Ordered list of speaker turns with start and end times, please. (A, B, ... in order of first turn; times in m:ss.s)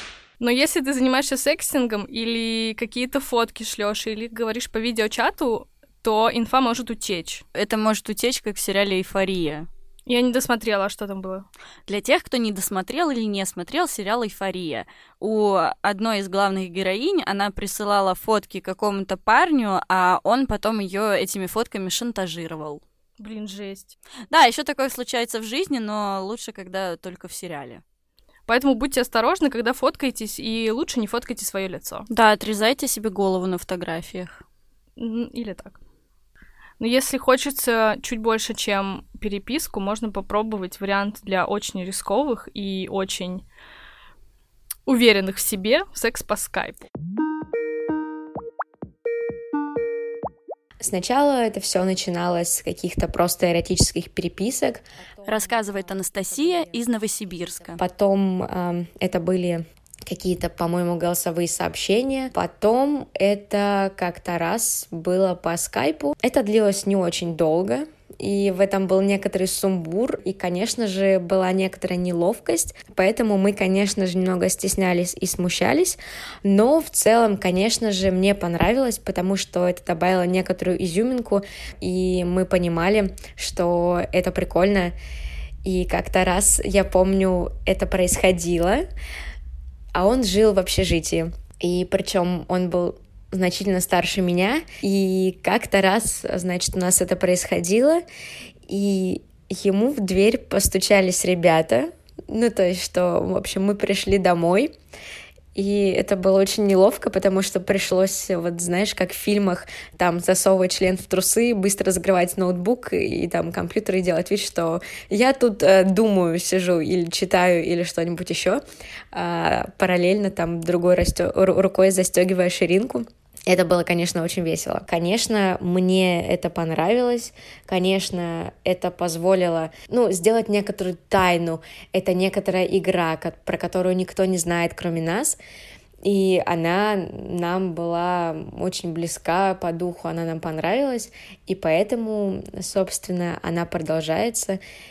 0:00.4-0:07.4 A
0:07.5-0:09.7 B
0:10.1-0:11.5 A
0:11.9-0:22.8 B
0:23.2-0:23.9 A
0:24.3-0:27.8 B
0:28.5-0:32.0 A
0:32.1-0:34.4 B
0:35.0-0:35.8 A
0:36.8-0:43.4 A
0:44.8-0:46.9 A
0:50.8-0:56.8 C
0:55.2-0:57.8 B
0:57.7-1:24.9 C
1:25.6-1:28.8 C
1:29.9-1:38.0 C
1:38.7-1:44.7 C
1:45.5-2:15.4 C
2:16.0-2:24.6 C